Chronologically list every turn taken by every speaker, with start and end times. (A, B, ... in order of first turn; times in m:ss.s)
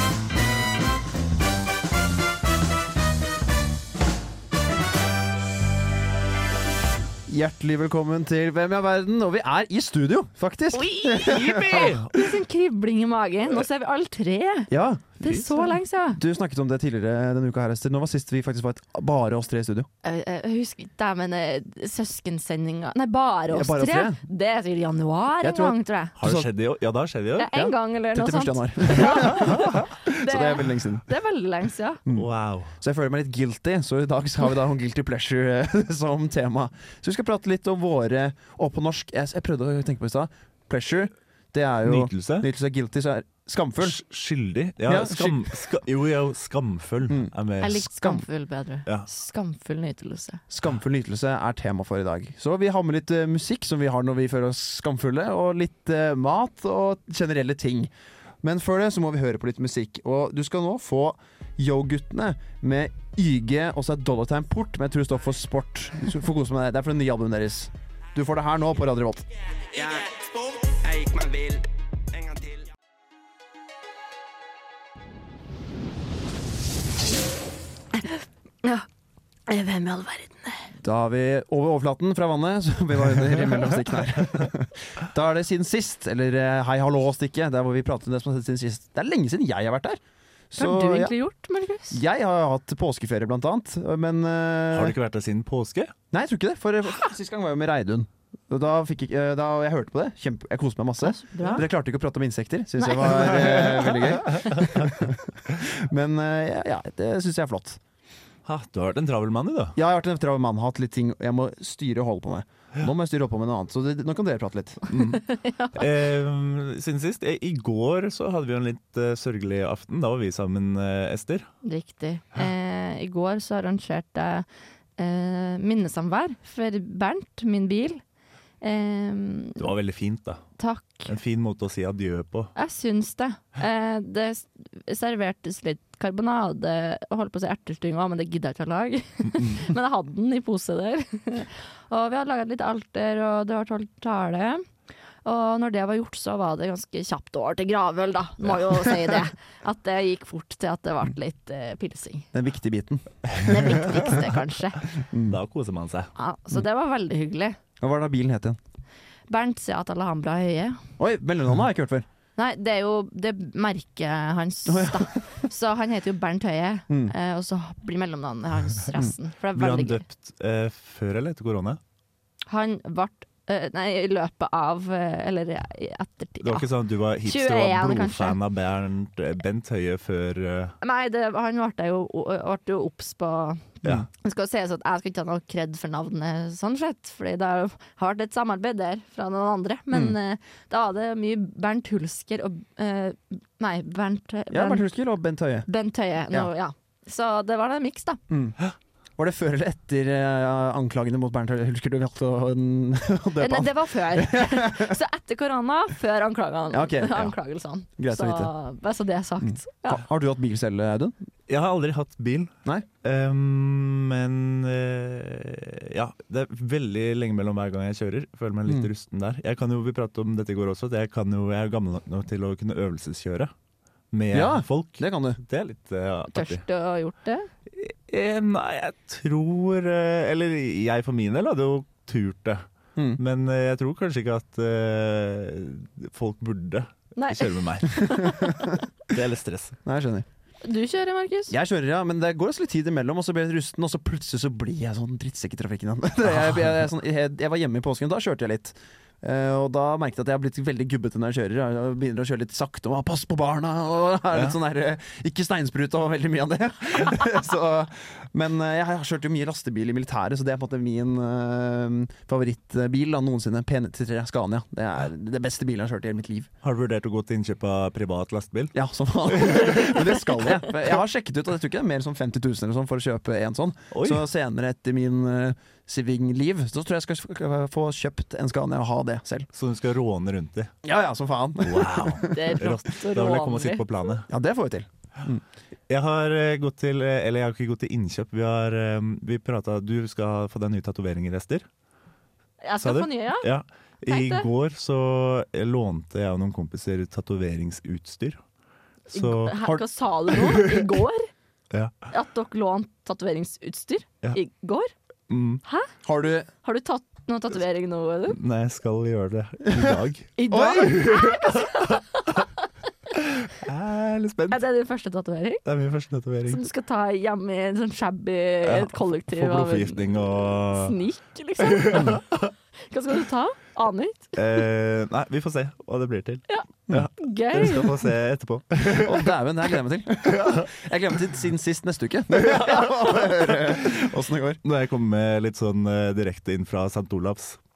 0:07.3-0:12.0 A
0:10.7-0:16.2 B
0:11.6-0:12.0 C
0:14.7-0:19.9 A
0:20.0-0:26.1 B
0:23.5-0:24.2 A
0:25.4-0:26.5 A
0:26.2-0:27.5 C
0:27.4-0:32.0 B
0:27.5-0:31.1 A
0:32.1-0:32.7 C
0:32.8-0:44.0 A
0:41.8-0:42.5 C
0:43.8-0:47.8 C
0:44.8-0:45.6 A
0:47.6-0:50.4 B
0:47.8-0:48.2 A
0:50.5-1:09.2 A
1:09.7-1:11.6 D
1:12.2-1:12.6 D
1:18.0-1:18.8 B
1:19.5-1:20.7 B
1:20.8-1:30.0 A
1:30.5-1:31.1 A
1:30.6-1:32.0 B
1:31.9-1:34.9 A
1:34.7-1:35.9 C
1:36.1-1:47.8 A
1:41.0-1:41.6 B
1:44.4-1:45.0 C
1:48.4-1:49.8 C
1:49.7-1:54.9 A
1:54.9-1:55.2 C
1:55.0-1:55.9 B
1:55.7-2:01.5 C
2:01.6-2:04.4 B
2:05.0-2:08.0 B
2:08.6-2:09.7 B
2:09.6-2:10.4 C
2:10.6-2:11.1 B
2:11.1-2:12.5 C
2:12.6-2:24.6 B
2:25.2-2:32.3 B
2:32.3-2:34.0 A
2:33.4-2:34.8 B
2:35.1-2:35.4 A
2:35.3-2:36.1 C
2:36.2-2:37.6 B
2:37.8-2:38.6 A
2:39.3-2:40.8 B
2:41.0-2:42.1 A
2:42.4-2:50.0 B
2:44.7-2:45.2 A
2:46.9-2:47.1 A
2:49.5-2:51.8 C
2:52.5-2:56.6 B
2:56.4-3:00.8 C
2:57.2-2:58.4 B
3:00.8-3:14.9 B
3:14.5-3:15.7 A
3:15.7-3:18.2 B
3:18.3-3:18.6 A
3:19.2-3:25.0 A
3:23.4-3:30.0 B
3:26.7-3:27.3 A
3:28.0-3:28.5 A
3:29.5-3:31.2 A
3:31.5-3:43.5 C
3:44.1-3:46.6 C
3:44.3-3:45.4 A
3:46.3-3:47.5 B
3:47.7-3:52.6 C
3:53.2-3:58.1 C
3:57.2-3:58.7 B
3:59.1-3:59.8 C
3:59.8-4:00.2 A
4:00.6-4:01.5 B
4:01.5-4:26.5 A
4:26.6-4:28.7 C
4:28.7-4:39.5 A
4:29.3-4:30.2 C
4:33.9-4:34.2 C
4:39.5-4:40.7 C
4:40.8-4:42.6 A
4:41.6-4:44.3 C
4:42.2-4:43.8 B
4:44.3-4:45.4 A
4:45.9-4:51.6 C
4:52.6-4:53.5 B
4:52.8-4:58.4 C
4:54.0-4:54.5 B
4:59.1-5:01.3 B
4:59.1-4:59.6 C
5:00.4-5:00.8 C
5:02.1-5:04.9 B
5:05.3-5:05.6 C
5:05.6-5:05.9 B
5:06.0-5:06.5 A
5:06.6-5:08.4 B
5:08.3-5:12.4 C
5:09.7-5:10.0 A
5:10.4-5:12.4 B
5:10.5-5:10.9 A
5:13.1-5:14.6 C
5:14.5-5:15.6 B
5:15.6-5:16.6 C
5:16.4-5:22.2 B
5:18.6-5:20.9 C
5:21.7-5:22.5 C
5:21.9-5:22.2 A
5:22.9-5:24.4 B
5:24.4-5:29.3 C
5:26.5-5:27.9 B
5:28.9-5:34.6 A
5:30.3-5:30.7 C
5:32.3-5:33.7 C
5:34.6-5:37.6 C